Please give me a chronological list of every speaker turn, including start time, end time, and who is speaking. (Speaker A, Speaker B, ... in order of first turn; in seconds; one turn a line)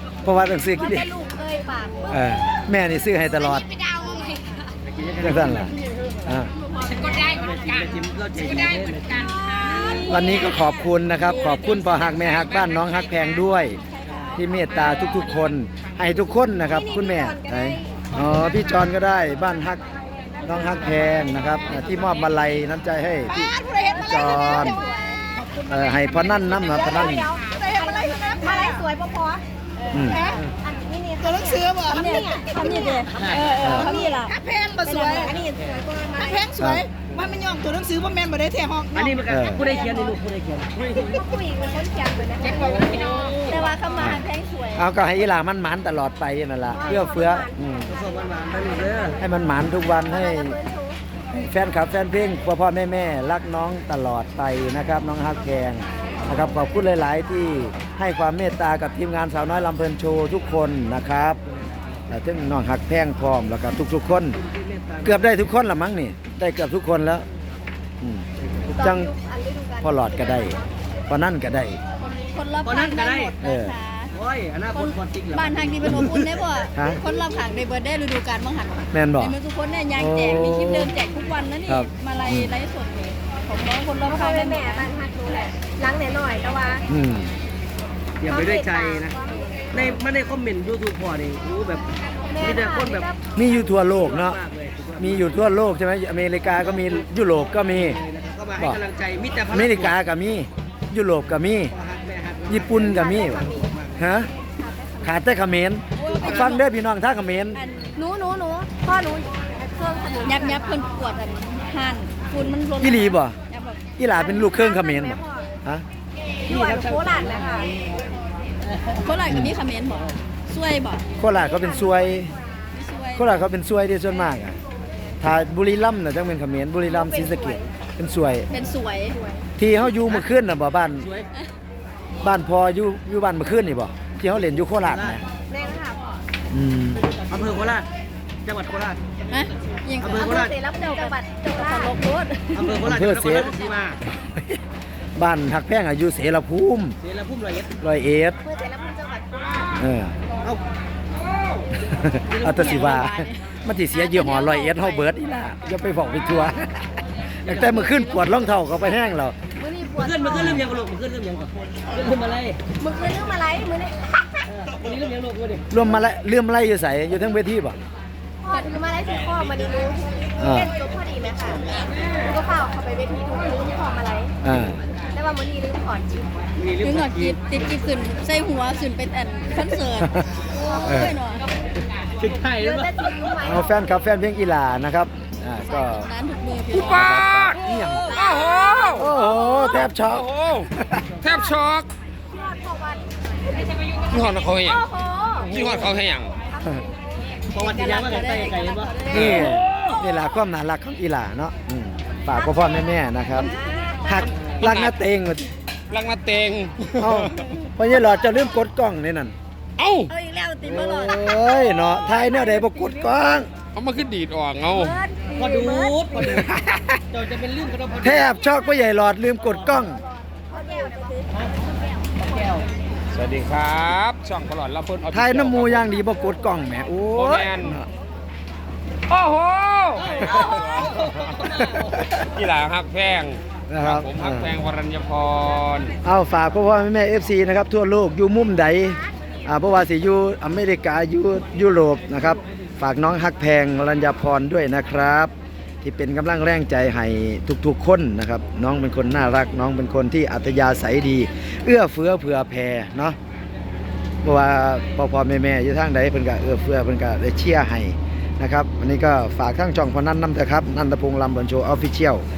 Speaker A: 0.2-1.1
Speaker B: 0.7-2.2
Speaker A: 2.1-3.7
Speaker C: 4.9-5.7
Speaker A: 5.2-6.5
Speaker D: 6.8-7.2
Speaker C: 7.1-9.3
Speaker D: 9.3-12.2
Speaker B: 9.8-10.0
Speaker A: 10.0-13.8
Speaker D: 13.8-15.2
Speaker A: 14.3-19.8
Speaker B: 16.6-18.1
Speaker B: 20.2-20.5
Speaker A: 20.4-23.5
Speaker C: 21.7-22.1
Speaker E: 23.3-24.2
Speaker B: 23.4-25.2
Speaker A: 24.0-24.8
Speaker D: 24.6-25.0
Speaker A: 25.6-27.3
Speaker B: 26.6-34.2
Speaker E: 27.5-28.7
Speaker A: 29.9-30.3
Speaker E: 31.4-31.8
Speaker D: 31.9-35.1
Speaker C: 33.1-33.5
Speaker A: 33.6-34.0
Speaker E: 34.3-35.3
Speaker B: 34.8-36.6
Speaker E: 36.2-39.0
Speaker A: 36.6-36.9
Speaker C: 38.9-41.1
Speaker A: 39.3-39.7
Speaker B: 39.5-40.1
Speaker B: 40.9-43.3
Speaker C: 42.4-43.6
Speaker D: 43.4-44.9
Speaker A: 44.0-48.0
Speaker B: 46.7-47.5
Speaker C: 47.9-49.2
Speaker A: 49.2-50.5
Speaker B: 50.1-51.0
Speaker A: 51.3-61.4
Speaker B: 55.8-56.3
Speaker A: 62.1-64.4
Speaker C: 64.4-65.3
Speaker A: 65.0-67.2
Speaker A: 68.0-68.2
Speaker B: 68.7-70.7
Speaker A: 68.8-69.1
Speaker A: 69.8-71.8
Speaker D: 72.0-74.1
Speaker C: 72.7-73.3
Speaker A: 73.4-73.7
Speaker C: 74.1-76.0
Speaker D: 74.7-84.9
Speaker A: 75.8-77.0
Speaker A: 78.9-79.3
Speaker A: 79.9-80.9
Speaker A: 81.7-82.5
Speaker B: 84.1-86.8
Speaker A: 86.9-87.3
Speaker C: 88.2-89.2
Speaker B: 88.2-89.8
Speaker C: 89.7-93.1
Speaker B: 92.3-93.4
Speaker A: 93.3-94.4
Speaker C: 93.9-95.3
Speaker A: 95.0-98.0
Speaker C: 97.6-99.9
Speaker A: 99.5-101.7
Speaker C: 101.7-102.6
Speaker A: 102.5-104.3
Speaker B: 102.7-103.7
Speaker B: 104.5-105.1
Speaker A: 105.0-107.6
Speaker D: 106.0-106.6
Speaker C: 106.1-106.5
Speaker D: 107.5-108.0
Speaker B: 108.0-110.7
Speaker D: 110.2-113.9
Speaker A: 112.4-113.4
Speaker A: 114.0-115.8
Speaker B: 114.1-115.5
Speaker B: 116.5-117.8
Speaker C: 116.5-117.9
Speaker D: 118.9-121.0
Speaker A: 119.3-119.5
Speaker A: 121.2-122.3
Speaker B: 121.3-122.7
Speaker D: 122.7-123.4
Speaker A: 123.1-124.6
Speaker A: 125.2-128.5
Speaker B: 126.9-127.6
Speaker D: 128.5-129.2
Speaker B: 129.1-129.5
Speaker A: 129.6-131.1
Speaker A: 132.2-135.2
Speaker C: 134.9-135.2
Speaker B: 135.5-136.0
Speaker A: 136.5-137.1
Speaker C: 137.2-137.9
Speaker C: 138.4-139.0
Speaker D: 139.3-142.8
Speaker C: 140.0-140.5
Speaker B: 140.2-141.9
Speaker C: 142.5-144.0
Speaker A: 142.8-143.5
Speaker A: 144.2-144.6
Speaker A: 145.2-147.0
Speaker C: 147.0-147.7
Speaker A: 147.8-148.4
Speaker B: 148.4-149.7
Speaker A: 149.8-150.1
Speaker A: 151.8-159.4
Speaker C: 152.3-153.0
Speaker D: 152.4-153.4
Speaker D: 153.9-155.1
Speaker C: 157.4-158.2
Speaker B: 159.5-160.6
Speaker C: 160.0-162.6
Speaker A: 160.3-160.6
Speaker B: 162.8-164.4
Speaker C: 164.5-165.6
Speaker A: 165.7-167.8
Speaker B: 168.4-171.7
Speaker A: 170.4-170.7
Speaker B: 172.2-174.3
Speaker A: 174.4-174.8
Speaker B: 175.1-176.5
Speaker C: 176.6-177.4
Speaker D: 176.8-181.5
Speaker A: 180.8-181.1
Speaker C: 182.2-183.1
Speaker B: 182.6-183.8
Speaker A: 183.4-186.1
Speaker D: 185.6-189.1
Speaker F: 186.7-189.1
Speaker A: 186.8-188.1
Speaker A: 188.9-191.1
Speaker B: 189.2-189.5
Speaker F: 189.8-191.9
Speaker B: 192.3-193.3
Speaker F: 194.1-194.9
Speaker B: 194.6-195.6
Speaker F: 195.4-196.3
Speaker B: 196.6-196.9
Speaker D: 197.5-199.6
Speaker C: 197.5-199.8
Speaker A: 199.1-205.5
Speaker B: 202.3-202.7
Speaker B: 203.3-204.2
Speaker F: 204.6-204.9
Speaker F: 205.9-207.5
Speaker A: 207.0-209.3
Speaker F: 209.8-210.1
Speaker D: 210.1-213.1
Speaker A: 210.6-213.5
Speaker F: 213.7-215.0
Speaker D: 214.7-216.4
Speaker C: 215.3-216.5
Speaker A: 216.2-216.8
Speaker C: 217.1-218.3
Speaker A: 218.0-220.0
Speaker B: 219.9-221.3
Speaker D: 220.7-221.2
Speaker C: 222.2-222.7
Speaker F: 223.1-225.9
Speaker A: 225.1-227.8
Speaker F: 227.1-227.8
Speaker F: 229.1-231.5
Speaker C: 230.0-232.0
Speaker A: 231.5-232.0
Speaker F: 232.1-235.9
Speaker A: 233.7-234.5
Speaker A: 236.0-245.3
Speaker A: 245.8-253.2
Speaker A: 254.2-262.2